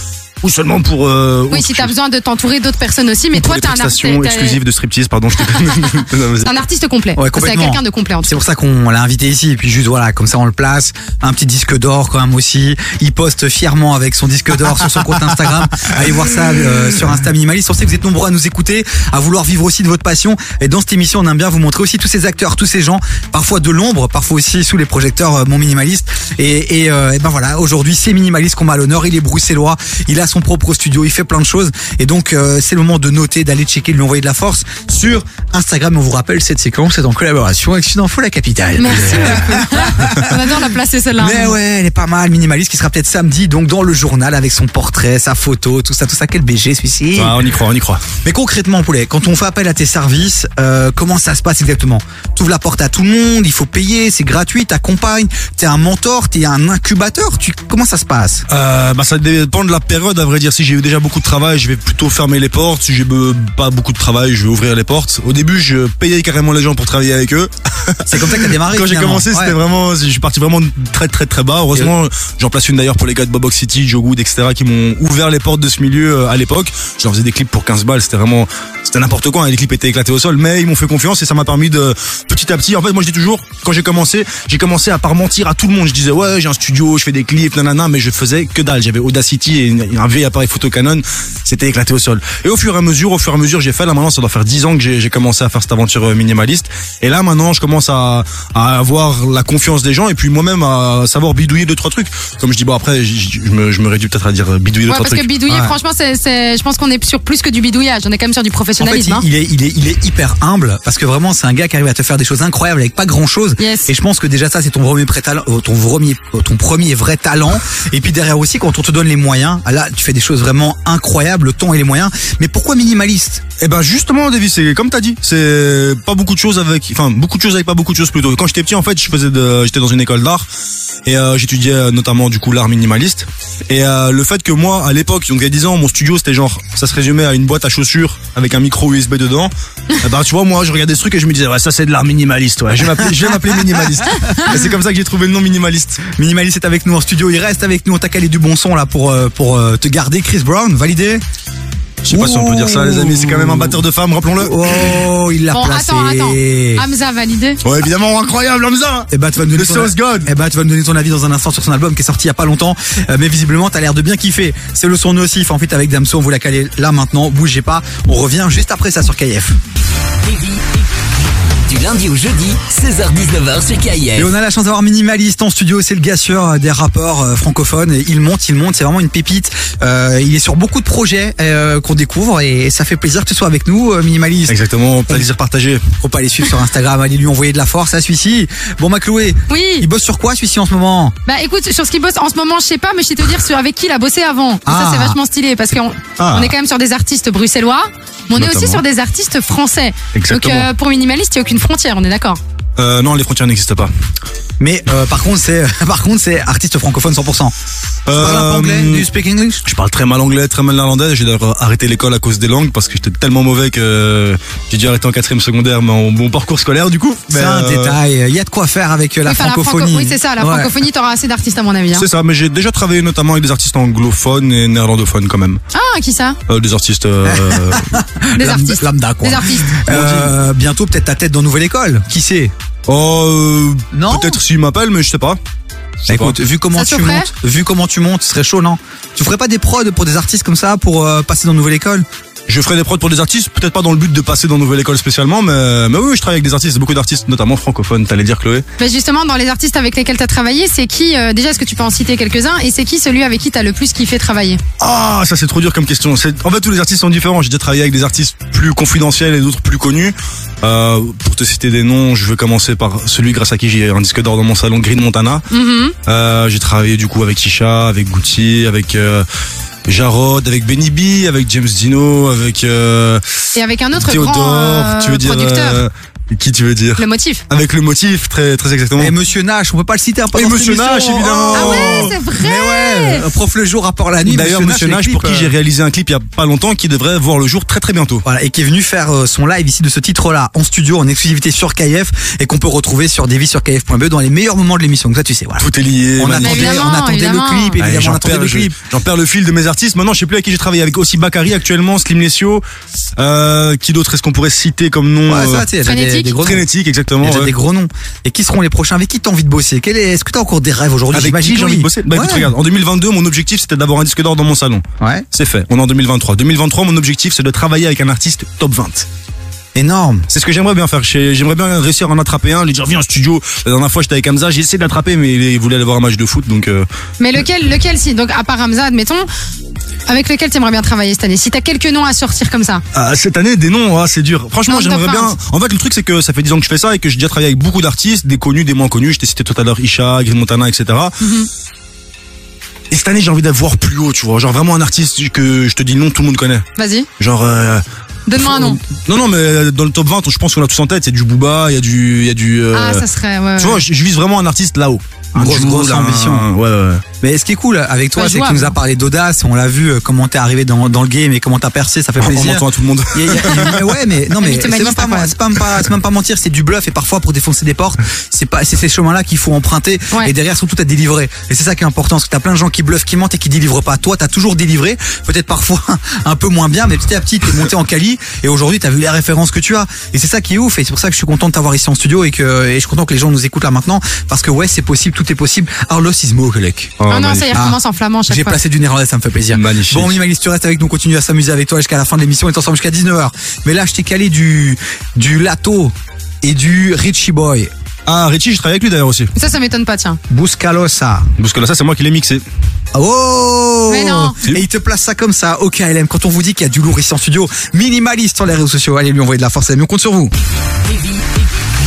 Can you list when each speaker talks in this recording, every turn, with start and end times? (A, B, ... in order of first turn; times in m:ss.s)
0:00.4-0:01.9 A
0:01.5-0:04.6 B
0:03.3-0:06.5 A
0:05.5-0:08.4 B
0:07.2-0:40.6 C
0:38.8-0:41.6 B
0:39.1-0:39.5 A
0:41.2-0:47.4 C
0:47.2-0:48.0 A
0:48.2-0:58.4 C
0:58.5-1:45.3 A
1:08.1-1:09.6 C
1:44.9-1:49.2 B
1:45.5-1:45.7 C
1:48.8-2:03.4 C
1:53.6-1:53.9 B
2:03.6-2:10.5 A
2:11.1-2:26.0 A
2:23.1-2:23.4 C
2:26.2-2:31.2 C
2:32.0-2:35.0 A
2:32.1-2:33.8 C
2:34.4-2:36.8 C
2:35.5-2:37.6 B
2:37.6-2:40.3 A
2:39.1-2:49.5 C
2:50.2-2:50.8 D
2:51.6-2:54.3 D
2:54.1-3:04.6 C
3:04.5-3:05.8 A
3:06.0-3:11.1 C
3:09.5-3:09.9 B
3:11.3-3:22.4 B
3:14.7-3:15.2 C
3:16.2-3:16.5 A
3:18.3-3:18.8 A
3:20.1-3:20.7 A
3:22.8-3:23.9 A
3:24.6-3:27.5 C
3:28.1-3:29.1 A
3:28.1-3:29.6 C
3:29.6-3:38.0 A
3:37.3-3:40.7 C
3:39.2-3:42.1 B
3:41.9-3:45.6 A
3:45.7-3:46.4 B
3:46.5-3:47.9 A
3:47.3-3:52.5 C
3:48.4-3:49.8 B
3:49.8-3:50.3 A
3:52.9-3:55.4 A
3:53.9-3:54.4 C
3:56.0-3:56.4 A
3:56.1-4:02.0 C
3:56.7-3:57.3 B
4:02.5-4:08.6 A
4:08.8-4:14.6 B
4:14.8-4:25.5 A
4:25.5-4:26.0 B
4:26.1-4:29.3 A
4:29.9-4:33.2 A
4:33.6-4:35.8 B
4:33.9-4:39.2 A
4:37.0-4:37.4 B
4:39.0-4:45.5 C
4:40.3-4:42.2 A
4:41.5-4:43.3 B
4:44.2-4:48.2 A
4:48.2-4:58.8 C
4:55.6-4:56.9 A
4:56.4-4:57.8 B
4:57.8-5:02.6 A
5:03.2-5:05.7 A
5:05.3-5:06.7 C
5:05.8-5:06.4 B
5:06.4-5:07.5 A
5:07.2-5:12.5 C
5:11.1-5:19.1 A
5:15.0-5:15.2 C
5:19.8-5:20.3 C
5:20.3-5:26.9 A
5:27.2-5:29.3 B
5:30.1-5:32.8 B
5:32.9-5:41.2 A
5:34.7-5:35.3 B
5:41.2-5:41.5 B
5:42.9-5:46.6 A
5:46.8-5:47.1 B
5:47.2-5:47.8 A
5:48.3-5:48.8 B
5:48.4-5:53.0 A
5:52.7-5:53.8 B
5:53.6-5:57.0 A
5:55.4-5:56.5 C
5:57.2-6:27.0 C
5:58.2-5:58.8 B
6:02.2-6:03.8 A
6:04.4-6:05.4 B
6:27.0-6:27.7 A
6:27.1-6:28.6 B
6:27.5-6:37.7 C
6:29.5-6:30.2 A
6:38.1-6:39.3 A
6:39.4-6:40.2 B
6:40.3-6:41.3 C
6:41.4-6:42.4 A
6:43.0-6:50.3 C
6:43.9-6:44.4 B
6:50.8-6:51.5 D